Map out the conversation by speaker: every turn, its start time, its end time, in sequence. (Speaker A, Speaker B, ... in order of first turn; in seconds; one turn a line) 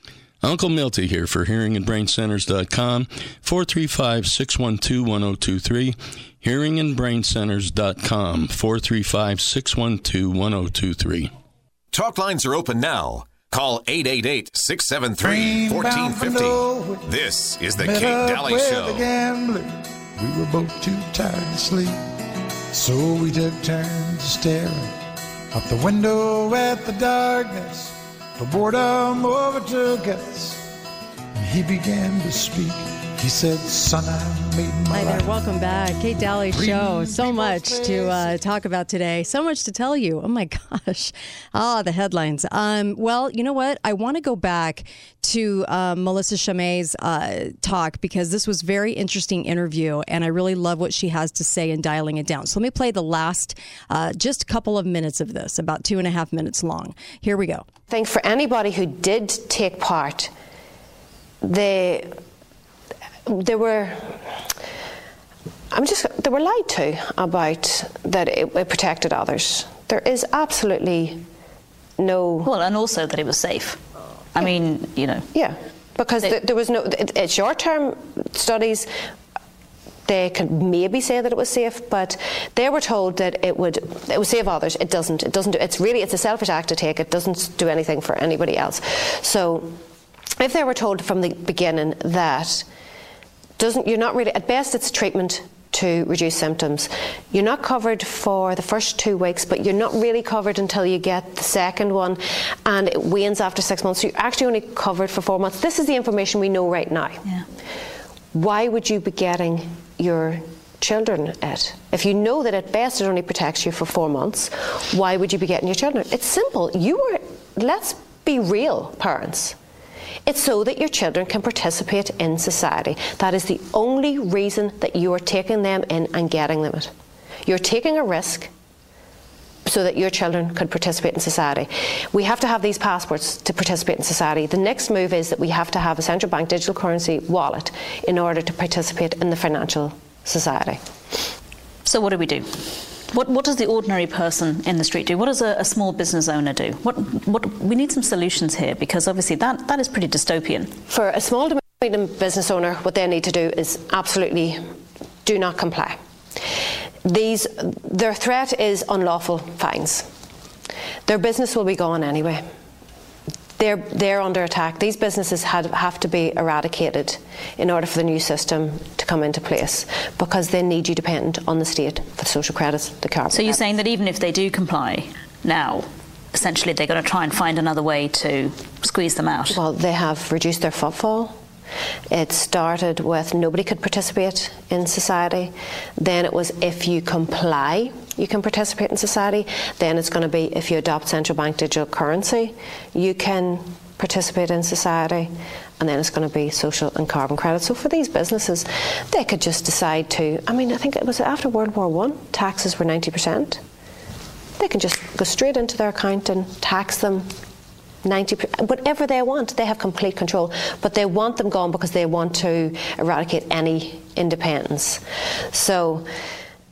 Speaker A: 0.4-11.3
Speaker B: 11.9-19.1
Speaker C: 15.2-17.1
Speaker C: 17.8-22.0
Speaker C: 22.7-25.0
Speaker C: 25.5-30.7
Speaker C: 31.4-35.4
Speaker D: 34.9-57.7
Speaker C: 36.5-38.4
Speaker E: 57.9-60.3
Speaker E: 61.4-62.2
Speaker E: 63.3-64.5
Speaker E: 65.7-71.2
Speaker E: 72.0-72.5
Speaker F: 72.5-73.8
Speaker F: 74.3-75.3
Speaker E: 75.3-78.9
Speaker E: 80.1-89.8
Speaker E: 90.4-92.7
Speaker E: 93.6-107.2
Speaker E: 108.3-119.6
Speaker E: 120.3-126.9
Speaker E: 127.5-128.5
Speaker E: 129.7-140.8
Speaker F: 141.8-150.7
Speaker E: 150.9-154.7
Speaker E: 155.2-156.0
Speaker E: 157.0-160.1
Speaker E: 161.1-162.4
Speaker E: 163.6-173.6
Speaker F: 173.3-179.6
Speaker E: 179.5-181.4
Speaker E: 182.1-203.6
Speaker E: 204.6-207.3
Speaker E: 208.0-216.1